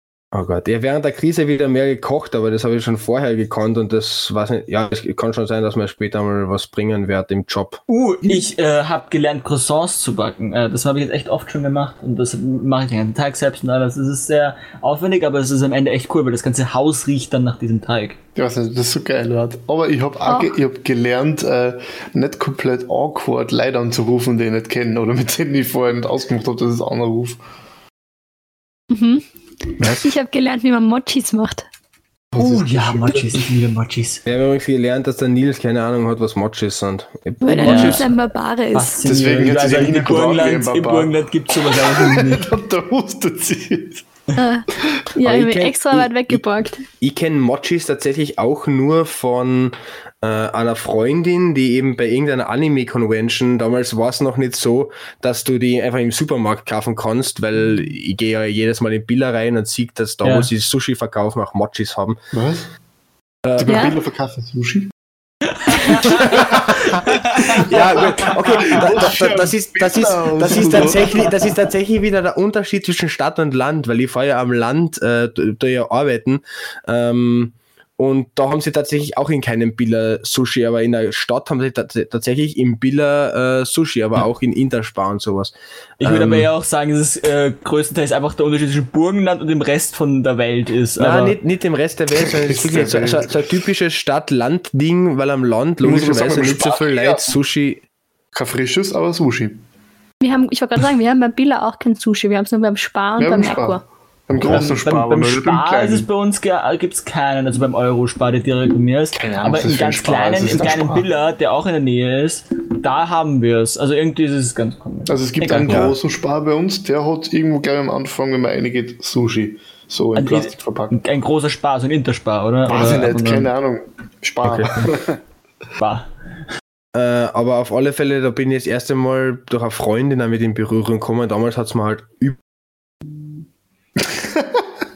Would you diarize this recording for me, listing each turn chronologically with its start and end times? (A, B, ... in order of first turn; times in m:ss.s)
0:00.3-0:07.8 A
0:07.9-0:18.2 B
0:18.4-0:27.4 C
0:20.2-0:20.5 D
0:28.9-0:29.2 D
0:29.9-0:31.6 D
0:32.3-0:33.4 C
0:32.4-0:34.2 B
0:34.2-0:38.1 A
0:37.4-0:39.0 D
0:37.6-0:38.1 B
0:38.7-0:42.5 B
0:39.0-0:44.0 C
0:44.4-0:46.8 D
0:45.2-1:02.2 A
1:00.2-1:00.5 B
1:02.3-1:02.7 C
1:03.4-1:03.8 A
1:03.6-1:04.9 C
1:03.6-1:04.0 D
1:05.7-1:06.0 D
1:06.3-1:26.5 A
1:07.2-1:08.8 B
1:07.5-1:11.3 C
1:26.0-1:31.4 B
1:31.0-1:37.8 A
1:32.5-1:33.3 C
1:35.8-1:37.3 C
1:38.3-1:39.6 C
1:40.2-1:43.8 D
1:43.2-1:46.1 C
1:44.4-1:44.7 A
1:44.4-1:55.9 B
1:49.2-1:51.1 C
1:55.1-2:01.0 C
1:55.6-1:56.0 A
2:00.2-2:03.5 B
2:02.6-2:05.2 C
2:04.4-2:04.8 A
2:05.8-2:06.1 B
2:06.9-2:12.4 A
2:14.0-2:14.6 C